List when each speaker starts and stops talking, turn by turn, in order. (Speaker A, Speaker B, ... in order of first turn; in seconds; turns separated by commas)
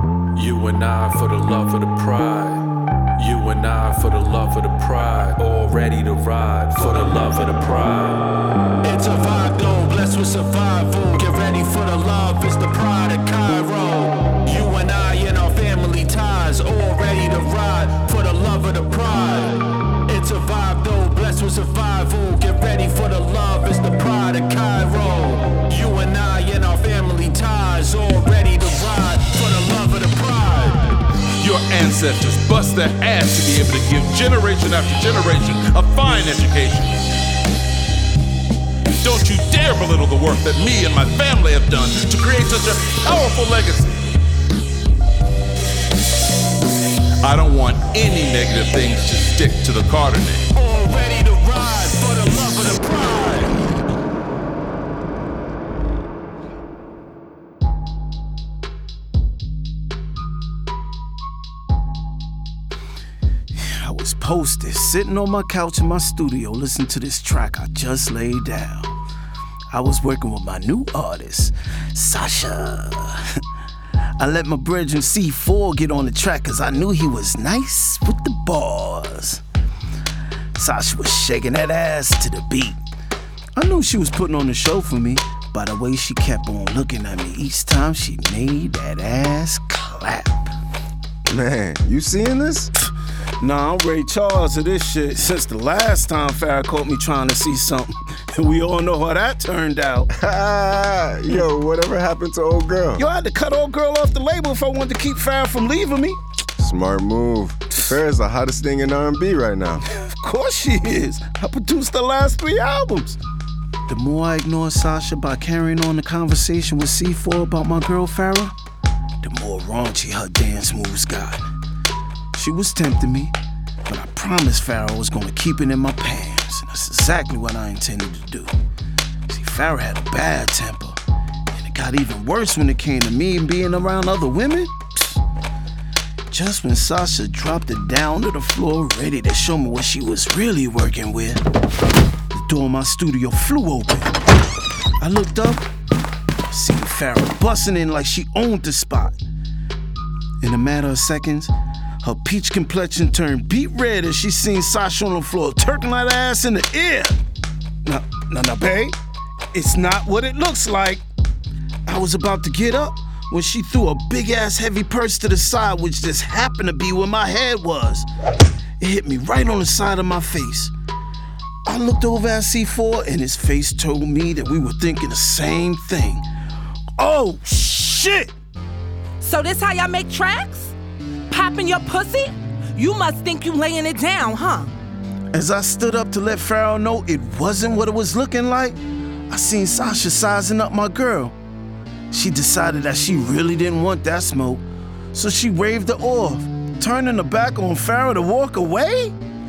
Speaker A: 0.3-2.6, Speaker A: 3.2-8.3, Speaker B: 8.8-31.0, Speaker C: 31.4-37.1, Speaker C: 39.0-44.0, Speaker C: 47.2-50.5, Speaker B: 50.5-53.6, Speaker D: 63.6-68.9, Speaker D: 69.7-73.2, Speaker D: 74.2-79.4, Speaker D: 80.5-82.8, Speaker D: 83.5-90.5, Speaker E: 91.3-92.7, Speaker D: 93.4-100.1, Speaker E: 100.1-103.0, Speaker D: 103.0-106.2, Speaker E: 106.6-109.8, Speaker D: 109.9-113.2, Speaker D: 113.9-118.5, Speaker D: 119.2-121.5, Speaker D: 122.3-123.3, Speaker D: 123.9-128.5, Speaker D: 129.3-131.0, Speaker D: 131.5-135.2, Speaker D: 136.3-141.4, Speaker D: 142.3-144.1, Speaker D: 145.0-145.7, Speaker D: 146.5-149.2, Speaker D: 150.4-157.2, Speaker D: 157.8-158.9, Speaker D: 159.5-161.0, Speaker D: 161.8-168.1, Speaker D: 168.8-170.7, Speaker D: 171.7-176.2, Speaker D: 177.0-178.3, Speaker F: 179.2-180.7, Speaker F: 181.3-184.7, Speaker D: 185.3-188.8, Speaker D: 189.3-191.3, Speaker D: 192.1-199.1